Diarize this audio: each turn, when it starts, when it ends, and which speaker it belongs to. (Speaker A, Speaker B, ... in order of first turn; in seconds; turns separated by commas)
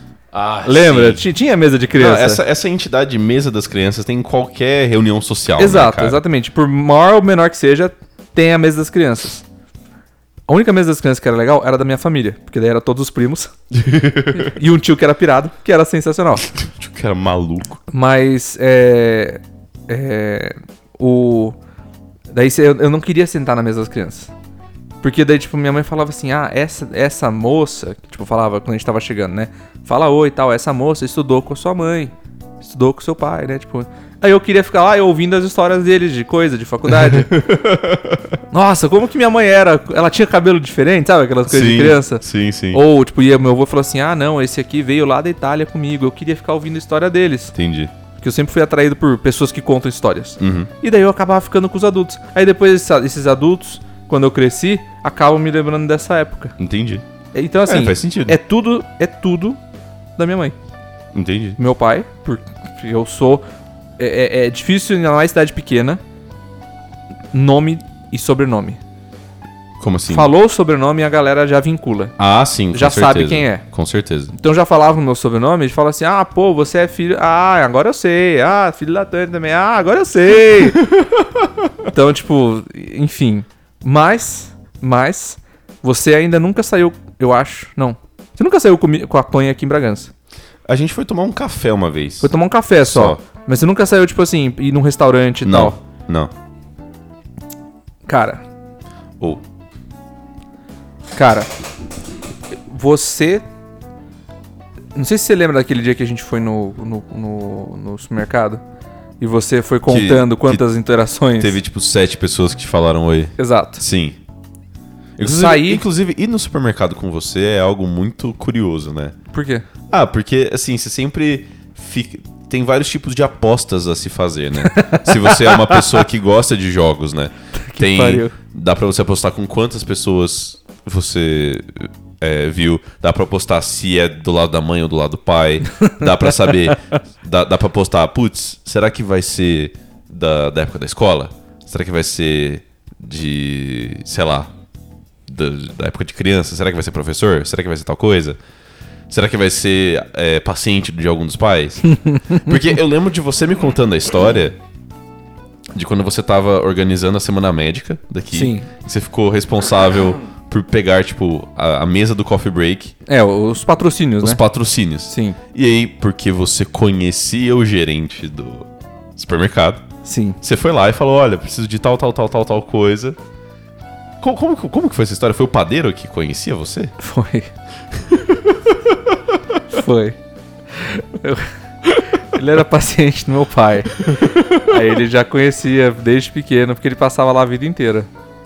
Speaker A: 0.3-1.2, Speaker B: 0.7-2.4, Speaker A: 1.9-6.2, Speaker B: 5.6-9.4, Speaker B: 10.5-13.5, Speaker A: 13.7-14.5, Speaker B: 14.3-16.5, Speaker A: 16.5-17.8, Speaker B: 17.9-21.6, Speaker B: 22.3-24.3, Speaker B: 25.0-37.3, Speaker A: 36.9-38.4, Speaker B: 38.5-47.5, Speaker A: 41.5-42.8, Speaker A: 47.5-47.9, Speaker B: 48.2-56.5, Speaker A: 50.4-50.7, Speaker A: 56.6-57.0, Speaker B: 57.3-59.6, Speaker A: 57.6-58.4, Speaker B: 60.2-60.6, Speaker A: 61.1-61.6, Speaker B: 61.6-63.4, Speaker B: 64.0-66.0, Speaker B: 67.3-68.8, Speaker A: 69.8-70.3, Speaker B: 70.1-72.1, Speaker A: 72.2-74.3, Speaker B: 72.7-73.6, Speaker B: 74.3-80.8, Speaker A: 80.9-81.2, Speaker B: 81.9-90.1, Speaker A: 90.7-92.3, Speaker B: 92.2-95.8, Speaker A: 92.8-93.2, Speaker A: 95.4-96.3, Speaker B: 98.1-98.4, Speaker B: 101.2-101.5, Speaker B: 102.7-103.4, Speaker B: 105.0-108.6, Speaker B: 109.2-111.6, Speaker A: 109.9-110.7, Speaker A: 111.4-114.2, Speaker B: 113.4-113.8, Speaker A: 115.2-119.2, Speaker B: 115.2-115.8, Speaker B: 119.3-119.7, Speaker A: 119.9-144.5, Speaker B: 124.6-126.0, Speaker B: 127.6-128.3, Speaker B: 135.8-136.7, Speaker A: 145.3-148.4, Speaker A: 149.1-154.6, Speaker A: 155.7-162.9, Speaker B: 158.3-158.7, Speaker B: 163.1-164.4, Speaker A: 164.2-169.8, Speaker B: 165.1-165.4, Speaker B: 170.1-170.4, Speaker A: 170.4-173.2, Speaker A: 174.2-176.9, Speaker B: 177.0-177.5, Speaker A: 178.1-178.5, Speaker B: 179.7-180.2, Speaker B: 180.7-188.1, Speaker A: 184.1-184.6